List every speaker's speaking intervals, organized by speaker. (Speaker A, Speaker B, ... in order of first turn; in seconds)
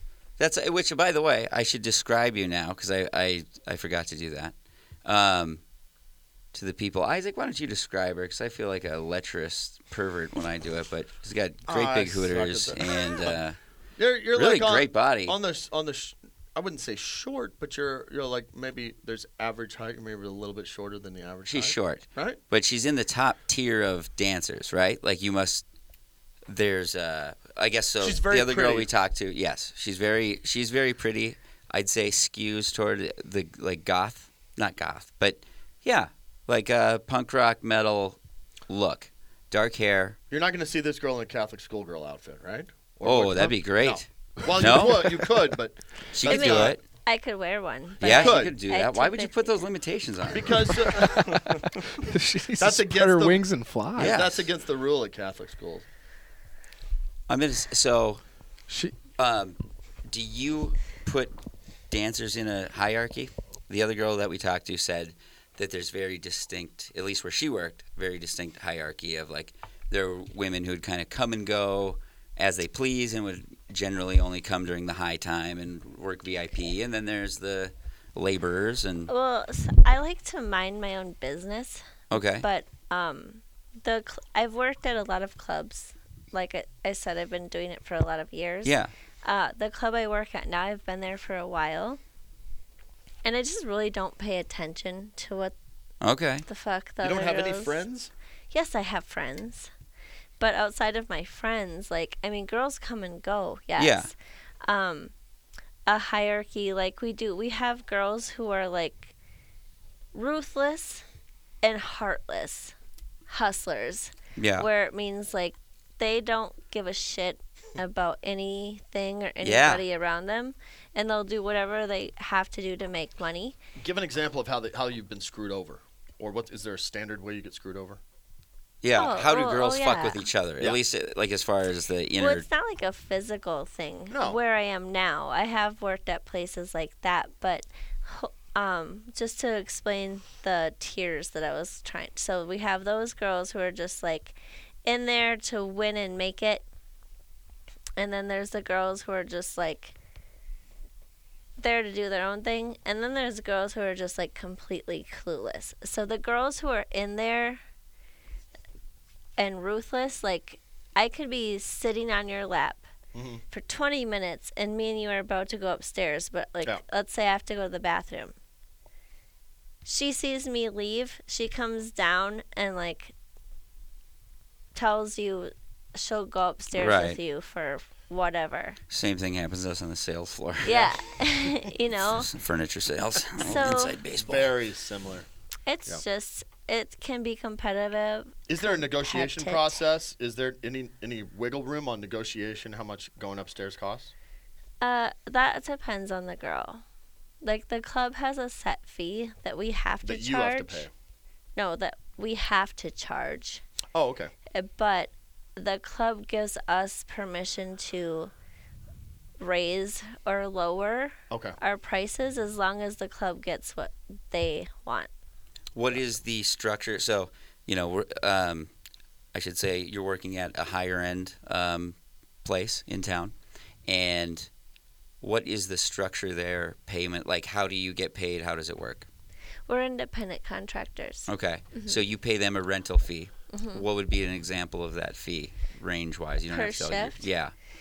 Speaker A: 0.4-5.6, 6.5-13.6, 14.3-15.4, 21.5-25.6, 26.5-38.2, 38.7-40.2, 43.0-45.2, 46.1-46.8, 48.0-50.9, 54.0-54.5, 57.3-58.2, 59.2-59.6, 60.1-61.4, 61.9-79.1, 82.1-82.5, 88.6-88.9, 96.0-96.5, 103.8-104.1, 114.4-114.7, 119.4-119.8, 128.8-132.5, 176.7-177.2, 178.9-180.8, 182.0-184.6, 215.8-218.7, 219.3-223.3, 223.9-224.5, 225.2-229.1, 231.3-237.5
Speaker B: 11.7-13.4, 14.0-22.4, 28.0-28.9, 40.3-46.8, 48.0-48.5, 50.3-51.7, 52.6-55.9, 97.0-98.1, 123.8-128.0, 134.1-134.4, 163.1-163.4, 180.7-180.9, 184.2-185.3, 188.5-194.1, 200.0-200.9, 203.9-204.3, 211.3-211.6
Speaker C: 46.3-49.6, 79.1-92.0, 93.2-95.5, 96.5-97.8, 98.5-99.7, 100.4-105.1, 105.9-109.1, 110.1-111.0, 111.6-112.8, 113.3-123.6, 128.9-130.3, 132.2-146.7, 148.0-149.9, 151.6-157.6, 159.4-162.9, 163.5-168.3, 169.8-173.1, 174.8-178.8, 180.6-182.3, 183.4-184.0, 185.7-189.8, 194.8-196.8, 197.4-200.9, 201.6-203.6, 204.5-208.3, 209.4-215.1, 229.7-232.0, 233.5-233.8, 236.5-237.3
Speaker D: 51.0-54.2, 58.7-59.0